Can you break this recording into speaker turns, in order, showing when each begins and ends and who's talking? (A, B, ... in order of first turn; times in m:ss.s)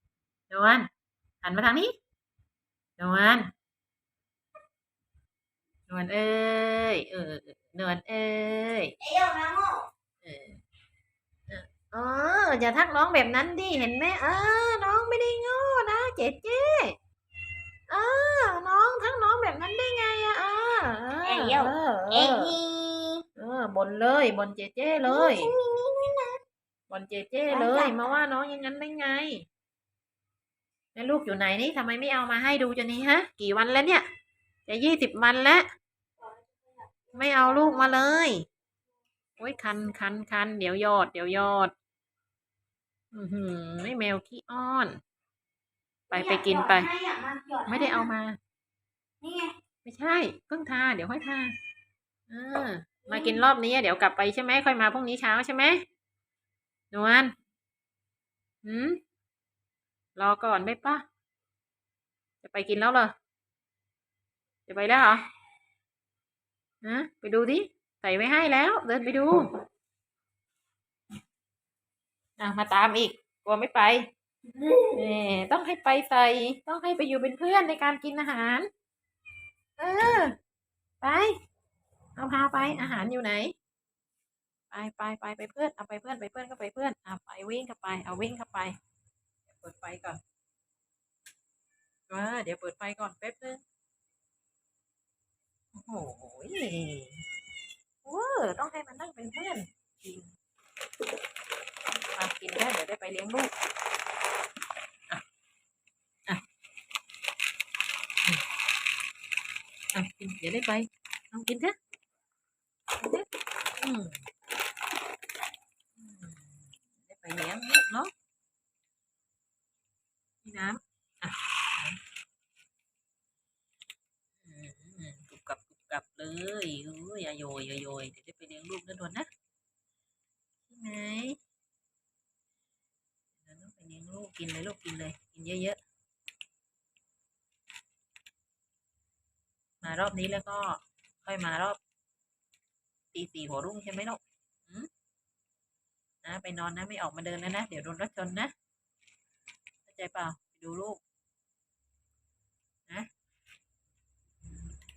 0:00.5-0:00.9 A
0:01.4-0:01.9 A
0:03.0-0:03.5 A
0:05.9-0:08.9 A
0:09.0-0:09.8 B
0:10.2-0:10.6 A
0:11.5-0:17.0 A
0:17.9-0:22.5 A
0:21.2-0:23.2 B
0:23.4-0:25.5 A
0:25.1-0:26.4 B
0:26.9-0:29.5 A
0:27.5-0:28.2 B
0:31.0-0:34.0 A
0:34.7-0:35.7 A
0:37.1-0:37.7 B
0:37.1-0:38.4 A
0:39.4-0:41.7 A
0:43.1-0:45.0 A
0:46.1-0:46.9 A
0:46.1-0:48.1 B
0:47.7-0:48.4 A
0:49.2-0:49.5 B
0:49.8-0:51.5 A
0:52.3-0:55.8 A
0:53.1-0:53.4 B
0:56.9-0:57.3 A
0:58.6-0:59.0 A
1:00.2-1:01.0 A
1:02.4-1:03.1 A
1:04.7-1:05.2 A
1:06.8-1:09.5 A
1:12.4-1:14.1 A
1:14.6-1:18.7 A
1:19.8-1:20.4 A
1:21.0-1:21.4 A
1:22.2-1:23.5 A
1:24.7-1:28.7 A
1:29.5-1:30.2 A
1:32.1-1:33.6 A
1:35.8-1:37.2 A
1:38.0-1:40.3 A
1:41.9-1:43.5 A
1:49.9-1:51.7 A
1:53.0-1:53.2 A
1:53.8-1:54.2 A
1:56.0-1:58.1 A
2:00.4-2:02.0 A
2:04.4-2:09.3 A
2:10.7-2:11.4 A
2:13.4-2:15.8 A
2:19.8-2:21.8 A
2:23.1-2:24.9 A
2:26.2-2:28.5 A
2:29.9-2:31.0 A